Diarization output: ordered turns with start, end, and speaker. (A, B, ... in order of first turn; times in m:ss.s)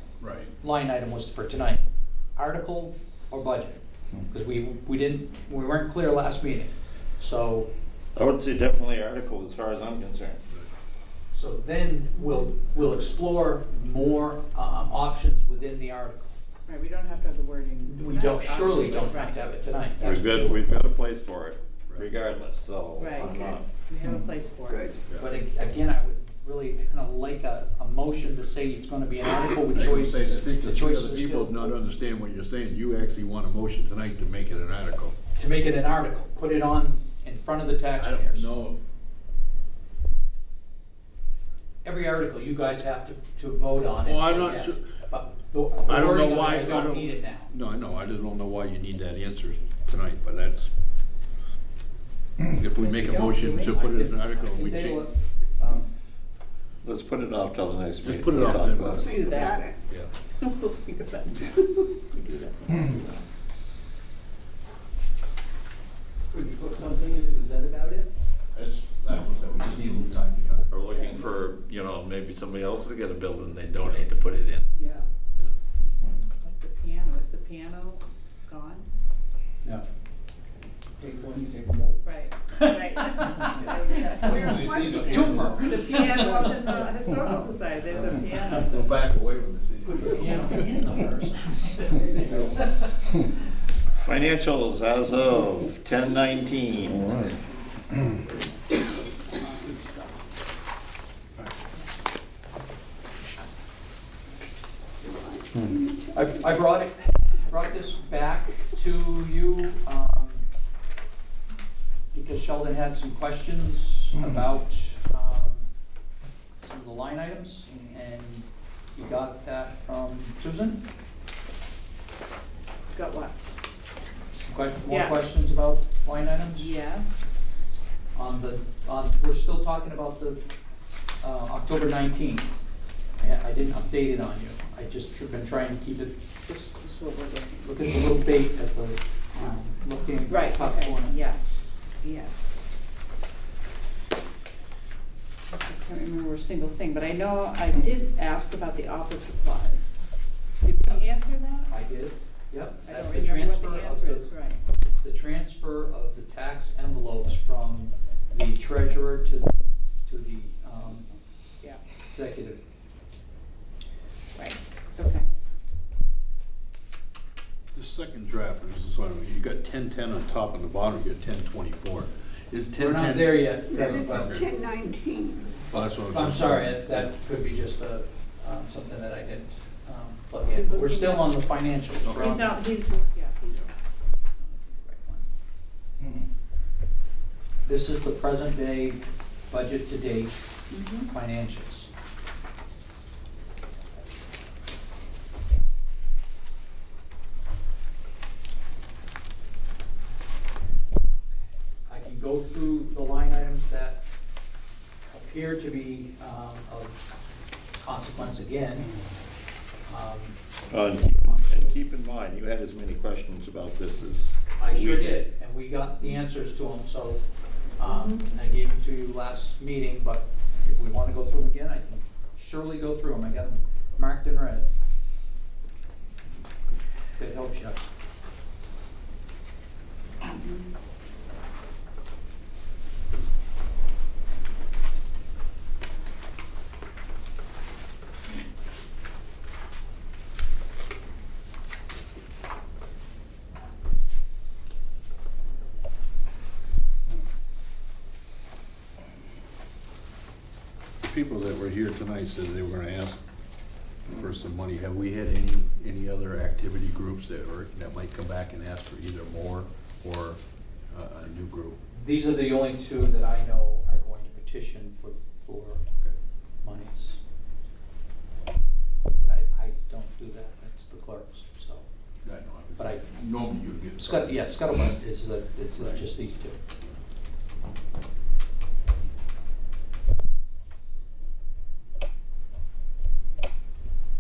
0:00.2-0:00.5 A
0:00.6-0:01.8 B
0:02.4-0:07.7 B
0:08.2-0:10.4 C
0:11.3-0:16.2 B
0:16.7-0:19.5 D
0:17.8-0:20.6 B
0:20.0-0:23.7 C
0:23.0-0:25.0 D
0:23.2-0:23.6 E
0:24.7-0:25.0 E
0:25.1-0:31.8 B
0:29.7-0:35.2 A
0:35.4-0:38.5 B
0:38.0-0:38.8 A
0:41.8-0:47.5 B
0:44.0-0:44.9 A
0:45.8-0:50.7 A
0:52.5-0:55.1 A
0:52.8-0:53.8 D
0:53.7-0:55.9 B
0:56.8-0:59.0 C
0:58.0-0:59.1 A
0:58.6-0:59.8 E
0:59.0-0:59.7 D
1:00.4-1:03.2 D
1:06.3-1:08.1 B
1:08.5-1:10.7 A
1:10.7-1:14.7 C
1:14.8-1:15.0 B
1:16.0-1:18.9 D
1:21.0-1:26.8 B
1:22.0-1:28.9 D
1:24.2-1:26.2 A
1:27.9-1:30.9 A
1:29.8-1:32.9 B
1:31.8-1:32.7 A
1:32.2-1:32.5 D
1:34.0-1:37.1 C
1:45.0-1:46.3 E
1:46.1-1:50.4 B
1:52.1-1:55.7 B
1:56.6-2:00.8 B
2:02.9-2:03.4 D
2:04.4-2:06.7 B
2:04.9-2:05.2 D
2:06.5-2:07.8 D
2:08.2-2:10.4 B
2:11.2-2:12.6 B
2:13.2-2:16.2 B
2:16.5-2:17.7 D
2:17.6-2:21.2 B
2:20.2-2:22.7 D
2:25.5-2:30.0 D
2:30.6-2:31.7 D
2:31.7-2:41.1 B
2:32.8-2:34.6 D
2:42.1-2:42.6 B
2:44.4-2:45.2 D
2:47.7-2:54.5 A
2:52.8-2:54.5 B
2:53.7-2:55.5 E
2:55.7-2:57.1 A
2:56.1-3:02.6 B
3:00.5-3:01.4 D
3:02.0-3:02.5 A
3:02.2-3:03.7 D
3:04.4-3:05.3 D
3:07.7-3:10.4 B
3:10.7-3:11.1 D
3:11.1-3:11.9 B
3:21.9-3:24.0 B
3:25.1-3:27.0 B
3:27.8-3:29.0 B
3:29.9-3:31.8 B
3:30.7-3:35.2 C
3:34.6-3:37.2 B
3:37.8-3:44.7 B
3:37.8-3:38.2 D
3:47.2-3:47.9 B
3:50.2-3:50.7 D
4:11.0-4:13.2 A
4:14.1-4:21.8 A
4:21.9-4:25.8 B
4:26.6-4:27.2 B
4:29.2-4:31.9 B
4:32.2-4:34.4 A
4:32.8-4:33.2 B
4:33.8-4:36.6 B